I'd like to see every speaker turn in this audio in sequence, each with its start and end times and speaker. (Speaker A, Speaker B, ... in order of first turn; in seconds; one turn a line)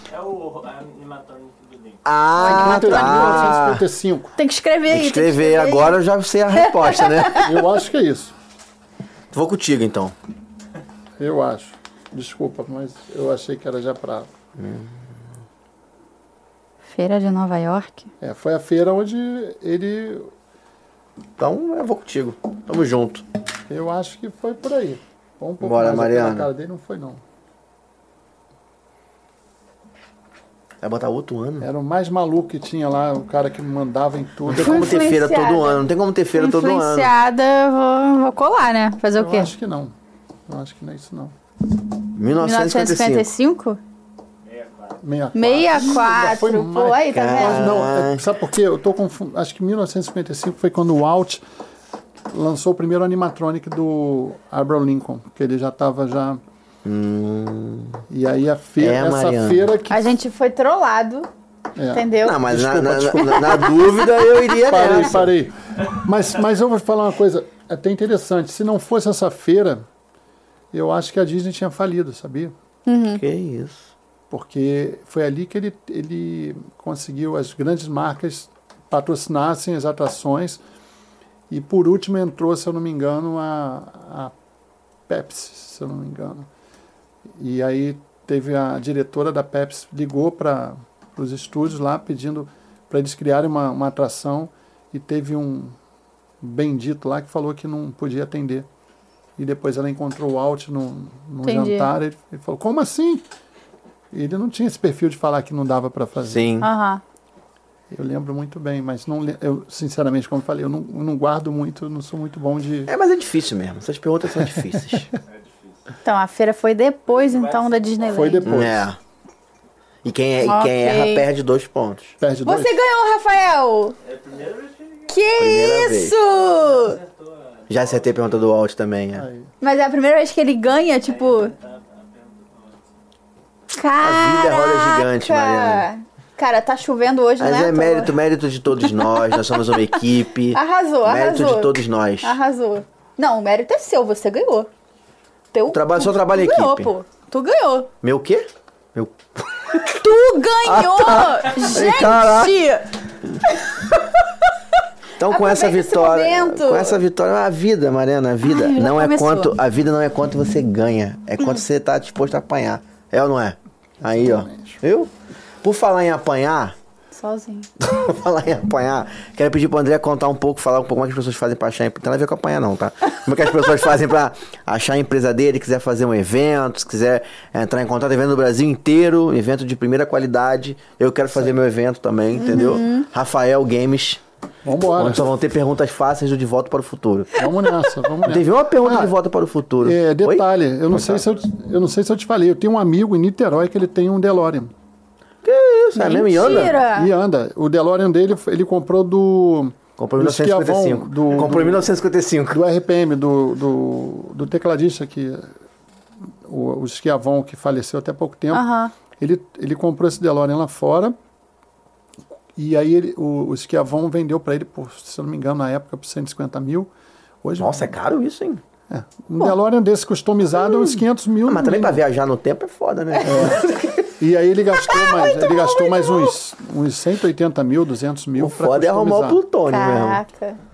Speaker A: 0.1-2.1
Speaker B: 2.0-3.8
Speaker C: 2.4-3.6
Speaker D: 2.4-4.4
Speaker C: 4.4-6.0
Speaker B: 4.9-7.5
Speaker C: 6.5-7.5
Speaker D: 7.4-8.3
Speaker B: 9.3-10.2
Speaker D: 11.2-14.3
Speaker B: 14.6-15.0
Speaker C: 16.9-18.1
Speaker D: 18.2-20.3
Speaker B: 21.4-23.2
Speaker D: 23.7-27.2
Speaker B: 25.6-26.5
Speaker B: 30.8-31.7
Speaker D: 31.6-35.0
Speaker B: 34.5-37.1
Speaker C: 34.5-35.9
Speaker C: 36.4-39.5
Speaker D: 39.1-39.9
Speaker D: 40.5-41.4
Speaker B: 42.1-43.3
Speaker C: 42.4-43.8
Speaker A: 44.4-45.0
Speaker D: 45.0-51.4
Speaker C: 45.4-47.8
Speaker B: 47.1-48.2
Speaker D: 52.3-56.4
Speaker B: 56.8-58.0
Speaker D: 58.1-60.1
Speaker B: 58.8-59.7
Speaker C: 59.9-61.3
Speaker D: 61.8-63.8
Speaker C: 61.9-62.4
Speaker B: 62.2-65.3
Speaker C: 63.3-64.2
Speaker D: 64.7-69.8
Speaker D: 70.7-72.5
Speaker C: 72.9-73.2
Speaker B: 73.1-73.9
Speaker D: 74.3-80.6
Speaker D: 81.5-84.3
Speaker D: 85.1-86.5
Speaker D: 87.4-95.8
Speaker D: 96.4-98.7
Speaker D: 99.4-103.2
Speaker C: 101.4-101.9
Speaker D: 104.1-106.5
Speaker B: 106.3-106.7
Speaker C: 106.6-107.0
Speaker D: 107.9-112.9
Speaker B: 112.9-115.1
Speaker A: 115.2-115.9
Speaker C: 116.0-118.5
Speaker A: 117.1-118.4
Speaker D: 118.1-118.9
Speaker B: 118.5-119.0
Speaker B: 120.0-122.2
Speaker C: 120.4-121.3
Speaker D: 122.2-122.7
Speaker C: 122.4-124.0
Speaker A: 124.0-125.3
Speaker C: 125.1-127.0
Speaker B: 125.4-126.2
Speaker A: 126.2-128.4
Speaker B: 127.7-129.2
Speaker D: 129.1-129.5
Speaker C: 129.6-131.5
Speaker A: 131.0-133.0
Speaker C: 133.8-138.2
Speaker B: 134.0-135.9
Speaker B: 137.4-142.4
Speaker C: 139.0-140.0
Speaker C: 140.5-144.7
Speaker C: 145.5-147.9
Speaker B: 145.7-146.9
Speaker B: 148.0-149.8
Speaker C: 149.7-154.1
Speaker B: 150.6-152.6
Speaker B: 155.2-165.1
Speaker C: 155.2-157.0
Speaker C: 158.4-159.5
Speaker D: 164.1-164.8
Speaker B: 165.6-166.8
Speaker C: 167.1-167.7
Speaker B: 167.8-184.2
Speaker C: 182.4-183.1
Speaker D: 184.7-185.4
Speaker B: 184.9-187.3
Speaker D: 187.4-189.1
Speaker B: 188.2-191.2
Speaker D: 189.8-194.7
Speaker B: 195.4-196.8
Speaker C: 195.9-197.1
Speaker D: 196.9-201.9
Speaker B: 200.0-202.6
Speaker D: 202.5-205.5
Speaker D: 206.5-211.2
Speaker C: 208.5-208.9
Speaker D: 212.6-216.9
Speaker D: 217.4-217.9
Speaker B: 217.6-218.6
Speaker D: 218.9-222.0
Speaker B: 221.5-224.0
Speaker D: 223.2-229.4
Speaker C: 224.9-226.3
Speaker B: 228.4-230.2
Speaker C: 229.7-230.6